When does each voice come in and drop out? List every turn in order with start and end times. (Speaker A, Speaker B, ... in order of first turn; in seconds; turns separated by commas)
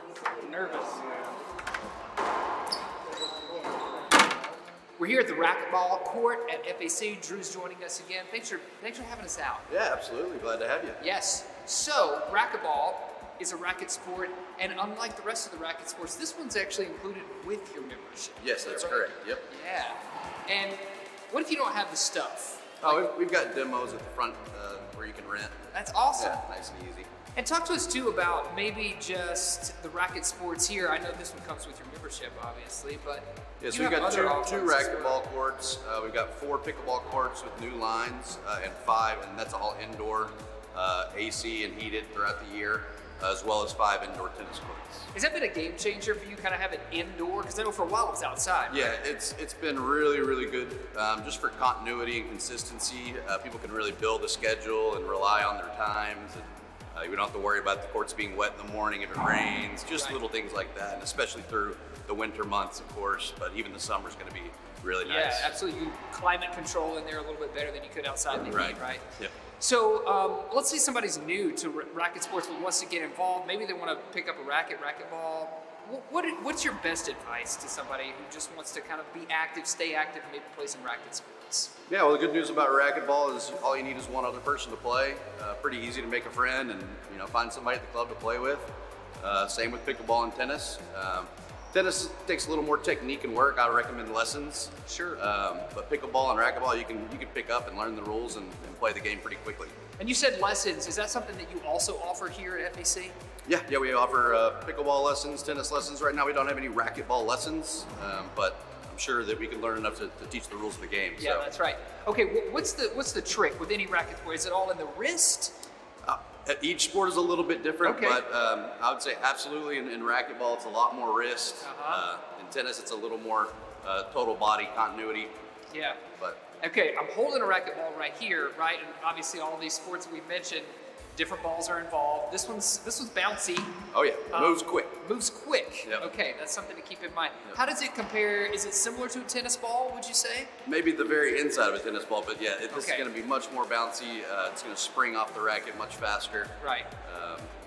Speaker A: 0.4-1.1, Speaker A: 5.0-9.7, Speaker B: 9.7-11.0, Speaker A: 11.0-23.0, Speaker B: 18.4-19.4, Speaker B: 22.8-27.1, Speaker A: 25.7-26.4, Speaker A: 27.4-35.2, Speaker B: 33.6-45.1, Speaker A: 45.1-49.0, Speaker B: 48.7-65.5, Speaker A: 65.0-81.7, Speaker B: 68.4-69.3, Speaker B: 81.9-99.8, Speaker A: 94.8-95.2, Speaker A: 100.0-103.1, Speaker B: 103.5-111.4, Speaker A: 111.2-115.6, Speaker B: 116.0-125.3, Speaker A: 117.8-118.2, Speaker A: 121.6-122.0, Speaker A: 125.7-126.0, Speaker A: 126.6-133.8, Speaker B: 133.9-134.9, Speaker A: 134.3-140.5, Speaker B: 135.8-136.1, Speaker B: 140.7-147.5, Speaker A: 142.7-143.1, Speaker A: 146.6-146.9